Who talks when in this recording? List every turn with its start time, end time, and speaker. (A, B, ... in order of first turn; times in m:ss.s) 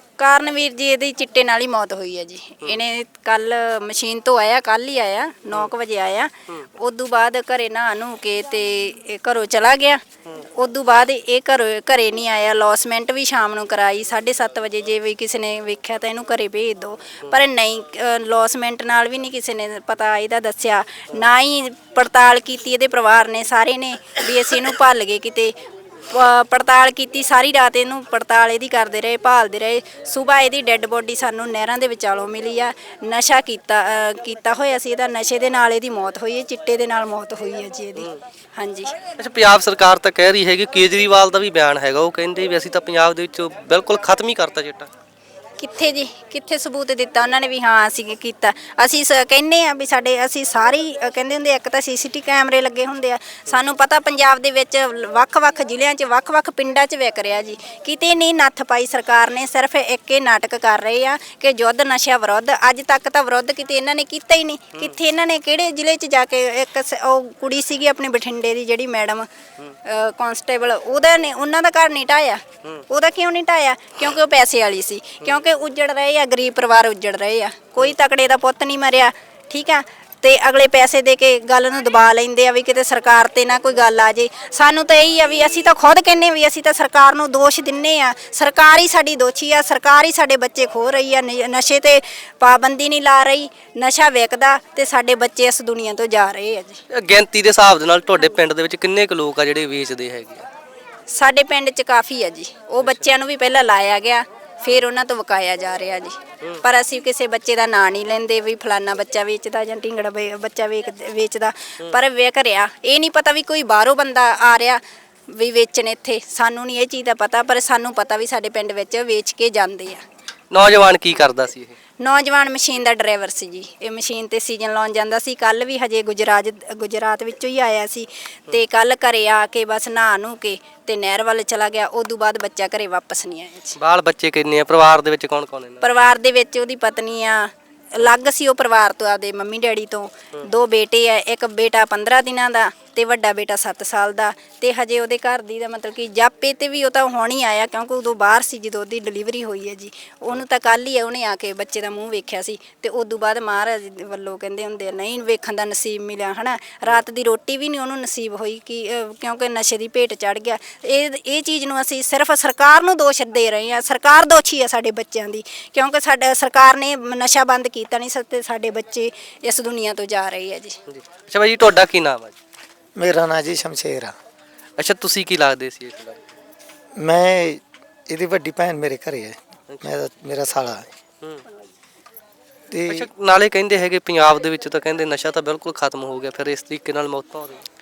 0:00.2-0:10.0 A
0:10.5-0:25.5 A
0:26.1-0:38.9 A
0:39.2-0:44.9 B
0:45.6-1:09.3 A
1:09.8-1:36.8 A
1:36.9-1:40.4 B
1:41.1-2:00.0 A
2:00.5-2:01.8 B
2:02.0-2:13.8 A
2:13.8-2:15.8 B
2:15.8-2:50.8 A
2:50.9-2:52.3 B
2:53.0-2:54.1 C
2:54.8-2:56.2 B
2:57.0-3:00.9 C
3:02.7-3:03.1 C
3:02.9-3:07.6 B